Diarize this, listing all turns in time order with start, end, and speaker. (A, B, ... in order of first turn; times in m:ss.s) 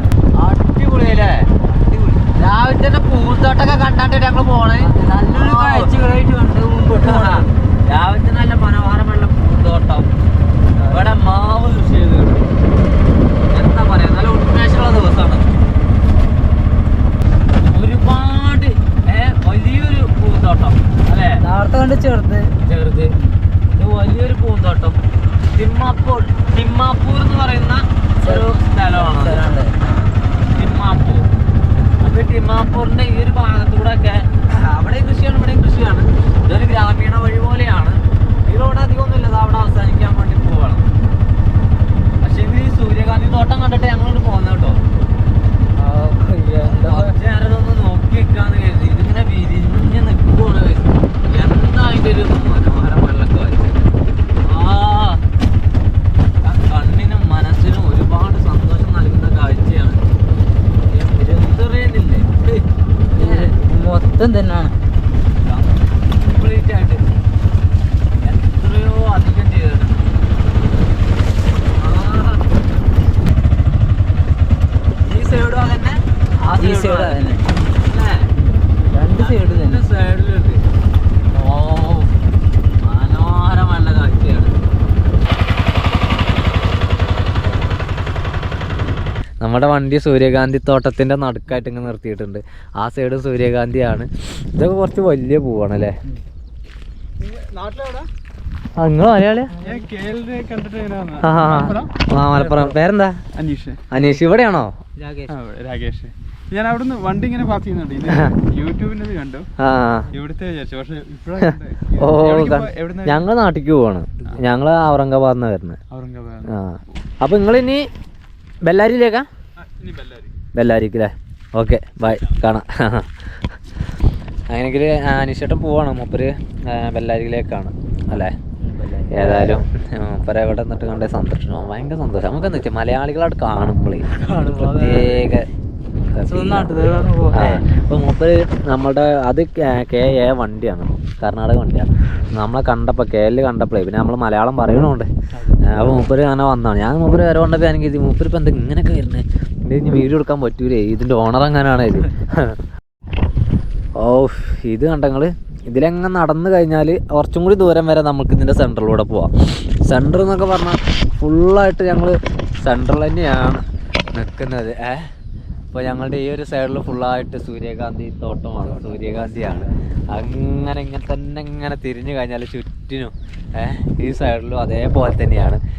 0:00.4-0:01.5 A
0:01.7-0:02.3 B
0:02.4-0:05.9 A
0:04.8-0:07.5 B
0:06.9-0:10.1 A
0:10.8-0:11.1 B
0:10.9-0:12.5 A
0:13.5-0:15.5 A
0:17.6-0:21.4 A
0:21.4-0:22.5 B
0:22.6-0:23.2 A
0:23.7-0:25.0 A
0:25.5-0:29.5 A
0:28.2-0:29.8 B
0:30.5-0:31.3 A
0:32.0-0:40.9 A
0:42.2-0:44.8 A
0:45.8-0:47.2 B
0:46.7-0:53.7 A
0:54.4-0:55.2 A
0:56.4-1:00.0 A
1:00.9-1:03.6 A
1:03.1-1:04.8 B
1:05.4-1:07.0 A
1:08.2-1:10.0 A
1:11.8-1:12.5 A
1:15.0-1:18.3 A
1:16.6-1:17.5 B
1:18.4-1:19.8 B
1:19.2-1:20.6 A
1:21.3-1:22.1 A
1:22.8-1:24.5 A
1:29.4-1:36.0 A
1:37.2-1:38.1 C
1:38.8-1:39.5 A
1:39.6-1:39.8 B
1:39.6-1:42.7 C
1:41.2-1:43.2 A
1:41.5-1:41.7 B
1:43.4-1:44.2 C
1:43.9-1:44.7 A
1:45.0-1:45.4 B
1:45.3-1:49.5 C
1:49.6-1:50.1 A
1:50.1-1:53.3 C
1:52.0-1:55.8 A
1:55.9-1:56.5 C
1:56.5-1:57.9 A
1:58.6-1:59.3 A
1:59.6-2:00.3 C
2:00.6-2:03.1 A
2:04.5-2:08.4 A
2:08.6-2:09.5 B
2:09.1-2:15.5 A
2:14.1-2:15.3 B
2:16.2-2:32.6 A
2:16.3-2:17.6 B
2:34.0-2:45.1 A
2:45.7-2:55.6 A